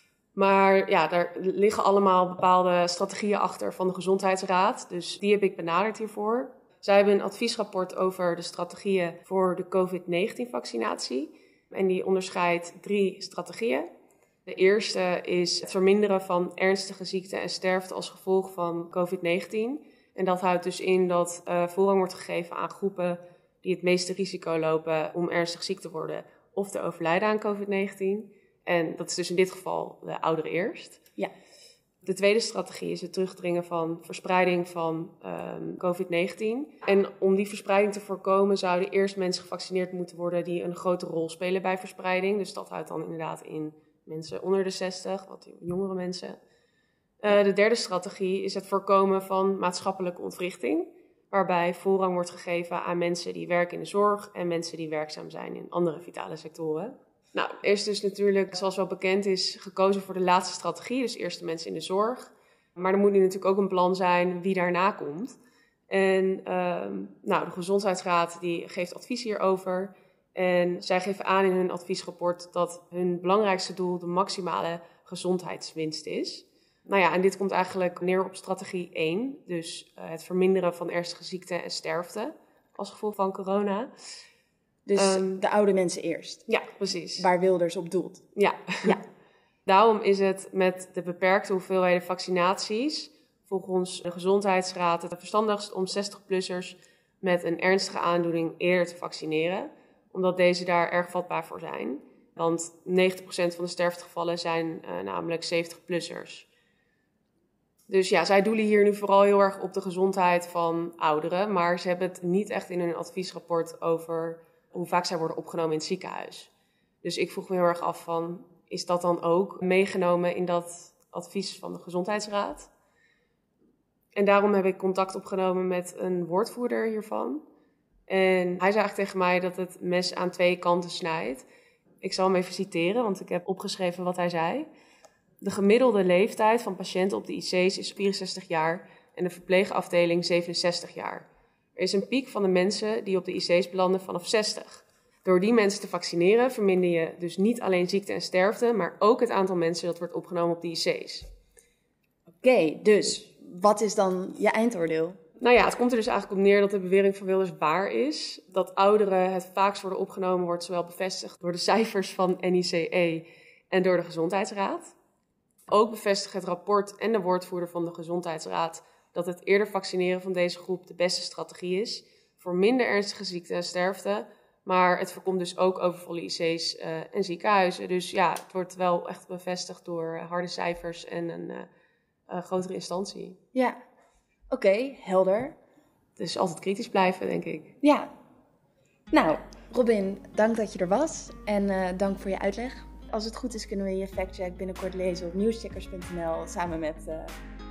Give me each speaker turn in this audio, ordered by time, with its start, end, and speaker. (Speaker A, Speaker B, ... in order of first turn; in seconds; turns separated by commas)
Speaker A: 0.3-13.9, Speaker A: 14.5-31.0, Speaker A: 32.0-46.4, Speaker A: 47.2-65.4, Speaker A: 65.9-83.9, Speaker B: 84.9-86.5, Speaker A: 85.0-85.4, Speaker A: 86.5-87.3, Speaker B: 87.2-88.2, Speaker A: 88.3-89.0, Speaker A: 89.7-106.5, Speaker A: 107.9-116.5, Speaker A: 117.0-122.7, Speaker A: 124.2-127.4, Speaker A: 128.1-131.5, Speaker A: 132.0-134.7, Speaker A: 135.4-151.3, Speaker B: 152.4-155.2, Speaker A: 155.4-164.9, Speaker A: 165.7-181.7, Speaker A: 182.3-183.4, Speaker B: 184.5-185.6, Speaker A: 186.2-187.7, Speaker B: 187.8-188.1, Speaker B: 189.1-197.3